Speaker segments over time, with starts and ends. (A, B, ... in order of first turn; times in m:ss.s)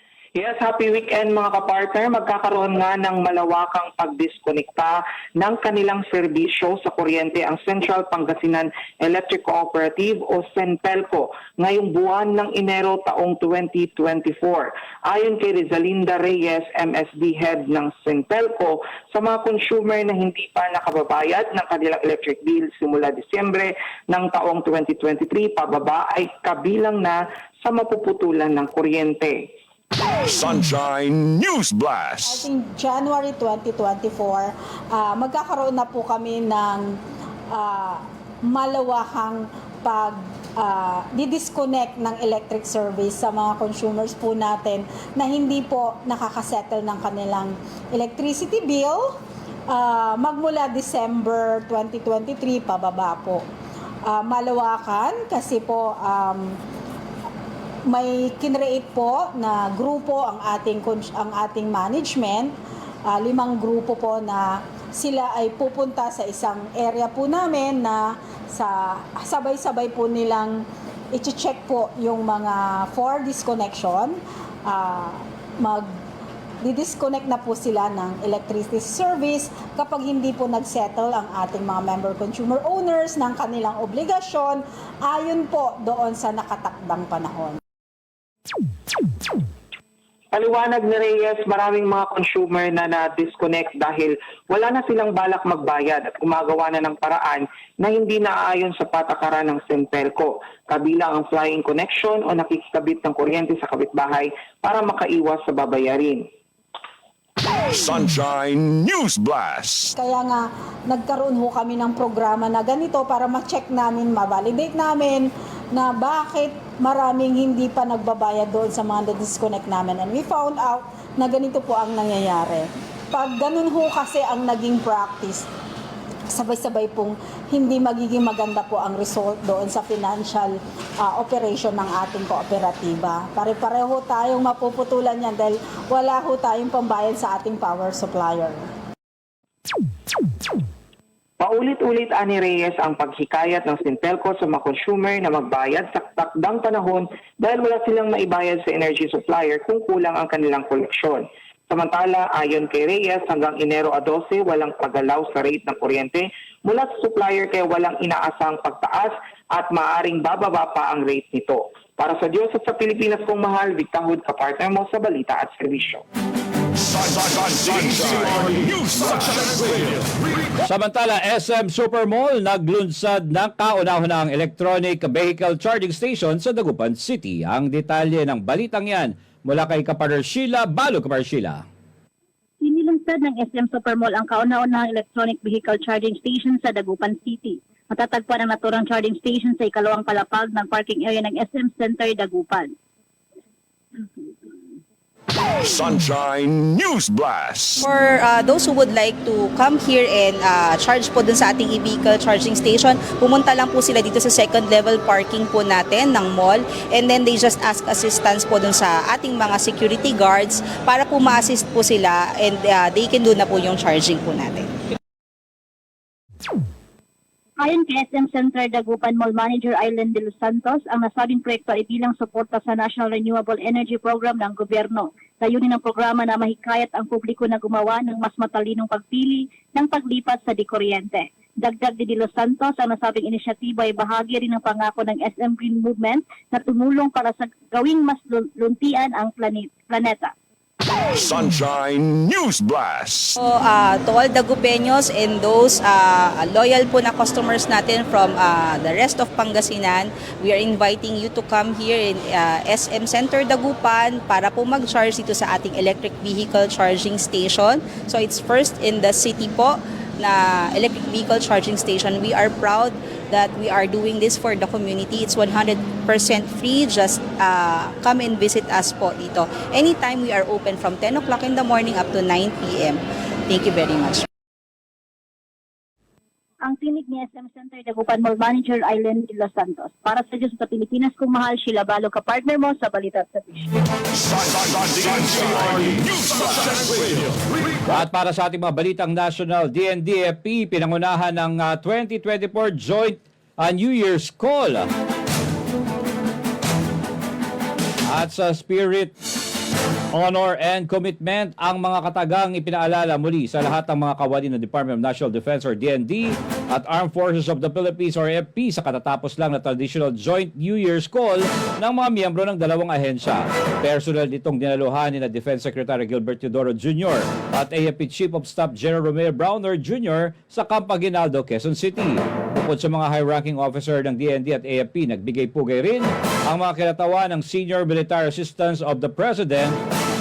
0:00.4-0:29.4 A
0:30.2-0:32.5 B
0:32.2-0:36.9 C
0:37.5-0:49.1 C
0:49.7-0:53.4 C
0:54.1-0:56.6 C
0:57.9-1:02.5 C
1:03.1-1:10.6 C
1:11.1-1:15.9 C
1:16.6-1:27.6 C
1:30.3-1:46.3 A
1:47.7-1:50.0 B
1:50.0-2:05.4 C
2:06.3-2:18.6 C
2:21.4-2:46.0 A
2:46.8-2:50.0 B
2:50.6-3:01.6 D
3:02.6-3:12.7 E
3:14.0-3:14.7 E
3:15.6-3:17.9 B
3:17.8-3:34.7 F
3:37.6-4:00.3 E
4:01.1-4:03.4 B
4:03.4-4:34.2 F
4:36.6-4:43.7 E
4:44.2-4:47.2 B
4:47.9-4:54.9 D
4:58.1-4:59.1 D
5:00.1-5:29.8 D